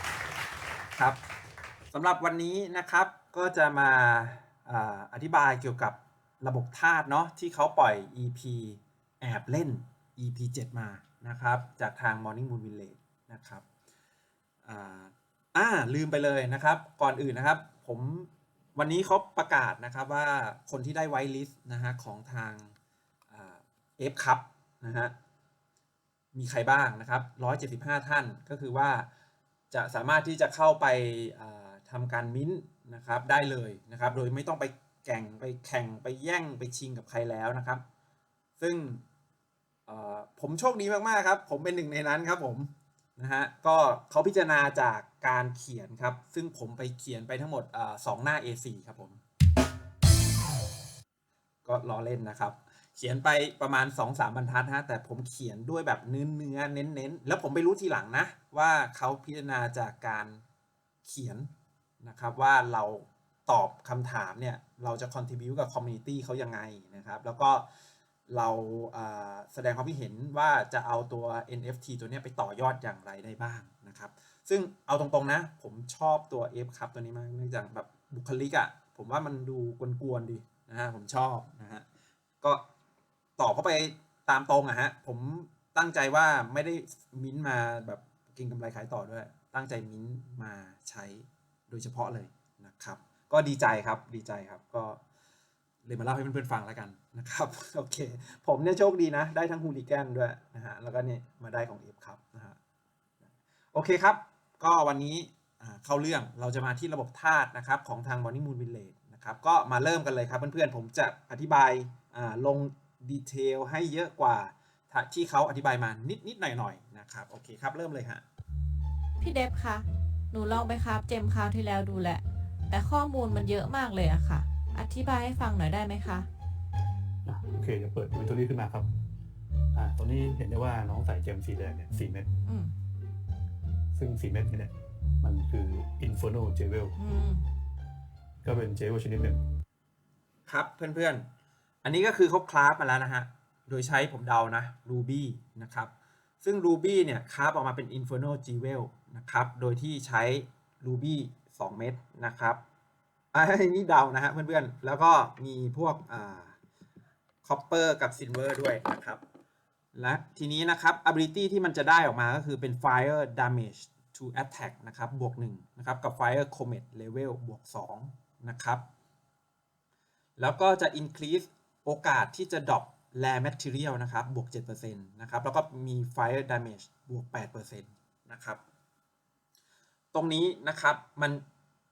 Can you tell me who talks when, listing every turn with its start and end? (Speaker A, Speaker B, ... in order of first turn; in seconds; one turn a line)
Speaker A: 1.9-13.6
Speaker A: 14.6-22.7
Speaker A: 23.3-25.1
Speaker A: 26.3-29.1
Speaker A: 29.7-37.8
Speaker A: 38.6-39.0
Speaker A: 39.9-49.2
Speaker A: 51.6-60.4
Speaker A: 61.0-61.5
Speaker A: 62.0-67.7
Speaker A: 68.3-81.8
Speaker A: 83.4-95.0
Speaker A: 95.8-102.6
Speaker A: 103.7-118.2
Speaker B: 119.2-126.3
Speaker C: 127.2-128.9
Speaker C: 129.7-132.3
Speaker B: 132.4-132.7
Speaker C: 133.9-136.9
Speaker B: 137.0-137.4
Speaker C: 138.4-139.4
Speaker A: 140.5-141.3
Speaker A: 141.8-152.6
Speaker A: 153.3-156.6
Speaker A: 157.4-159.2
Speaker A: 159.9-168.8
Speaker A: 170.4-178.6
Speaker A: 180.1-181.4